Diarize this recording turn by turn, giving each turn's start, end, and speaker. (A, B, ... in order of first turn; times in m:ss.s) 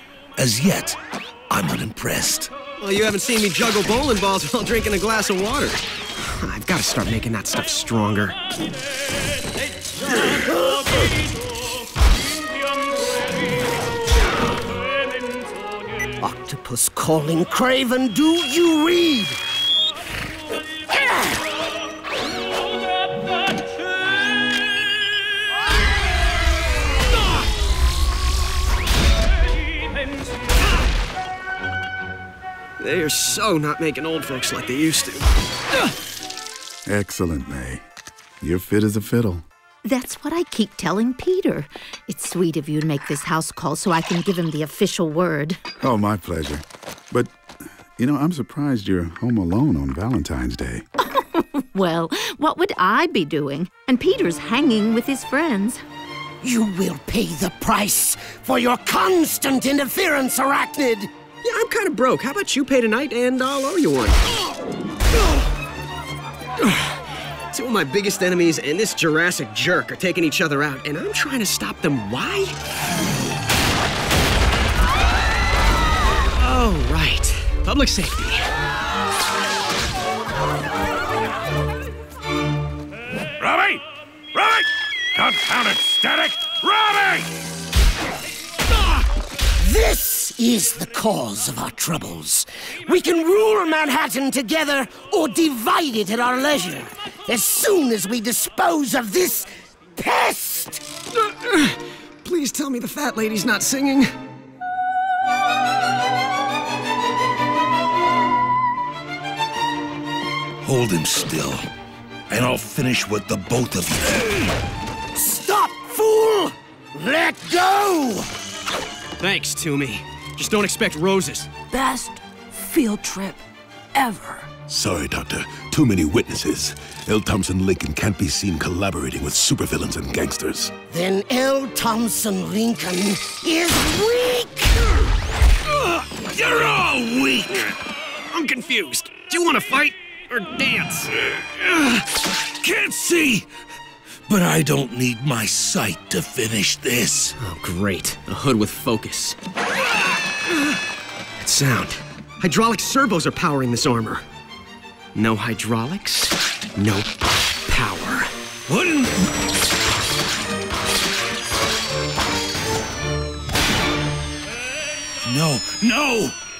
0:00.4-0:01.0 A
0:01.5-0:02.5 A
0:02.8-0:08.4 B
0:16.2-0:19.4 C
0:32.8-0:35.2 B
0:36.8-0:37.8 D
0:38.4-0:39.4 D
0:39.8-0:45.6 E
0:45.8-0:47.3 D
0:48.0-0:50.8 D
0:51.0-0:55.8 E
0:56.4-1:01.1 C
1:01.4-1:04.2 B
1:06.6-1:07.0 B
1:07.5-1:12.5 B
1:16.4-1:18.5 B
1:23.4-1:27.3 A
1:29.6-1:40.8 C
1:41.2-1:44.1 B
1:50.6-1:51.7 A
1:52.3-1:54.5 A
1:55.1-1:58.3 C
1:59.2-2:01.5 B
2:01.7-2:03.4 C
2:03.9-2:04.5 C
2:04.7-2:10.7 F
2:10.9-2:15.1 C
2:15.8-2:17.6 A
2:18.3-2:21.1 B
2:22.6-2:23.5 A
2:24.3-2:27.3 A
2:27.4-2:29.4 B
2:31.4-2:34.2 B
2:35.1-2:37.1 B
2:37.7-2:38.3 B
2:38.7-2:39.1 A
2:45.2-2:46.4 A